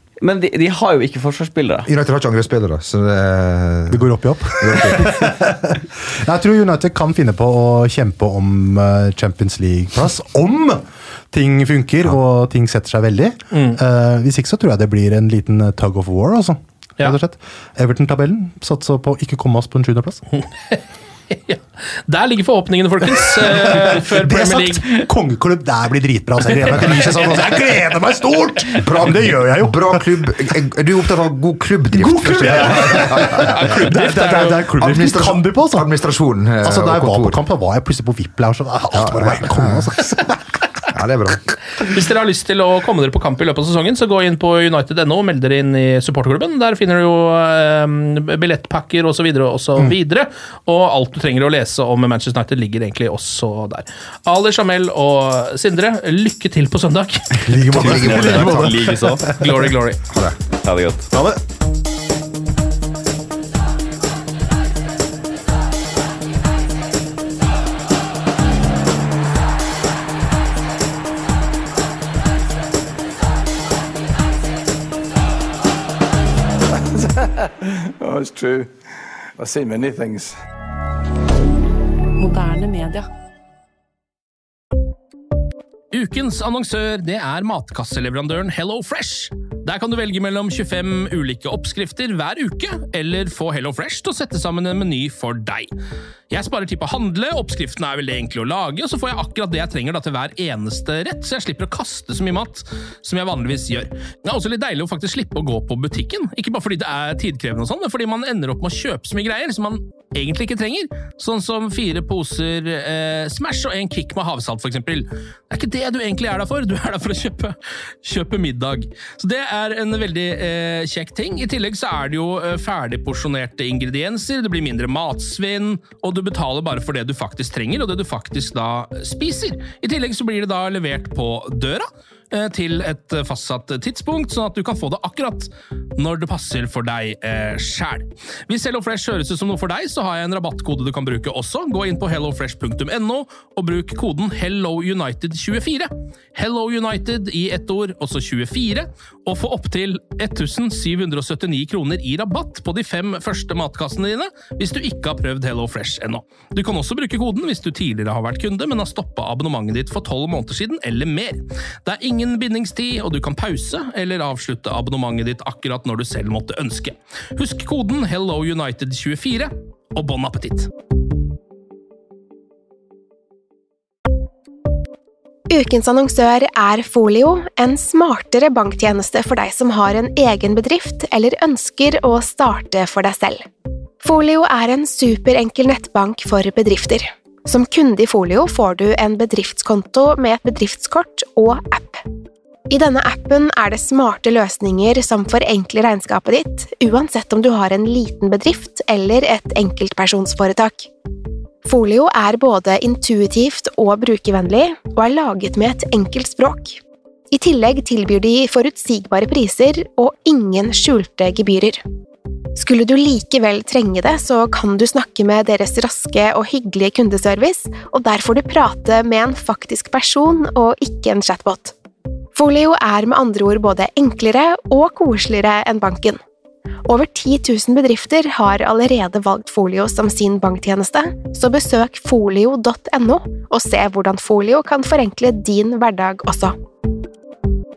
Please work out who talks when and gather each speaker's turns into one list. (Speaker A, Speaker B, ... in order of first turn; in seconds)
Speaker A: 0.2-1.9, 57.7-59.3, 60.6-61.1
Speaker B: 1.9-5.3, 28.8-33.9, 34.8-37.4, 38.9-40.2, 40.9-41.6, 57.6-59.0, 60.1-60.4
Speaker C: 3.9-20.2, 23.3-30.0, 31.9-35.9, 36.6-40.4, 57.4-59.6, 61.1-61.4
Speaker D: 13.5-13.8, 20.4-24.9, 32.8-34.7, 41.8-57.5, 59.4-60.0, 85.9-95.7, 96.3-170.7
Speaker E: 77.0-77.3, 78.0-78.7, 79.4-80.3
Speaker F: 175.5-183.4, 184.0-192.0, 192.7-200.9, 201.7-206.8, 207.3-211.8, 212.6-221.7, 222.4-226.2, 226.9-236.5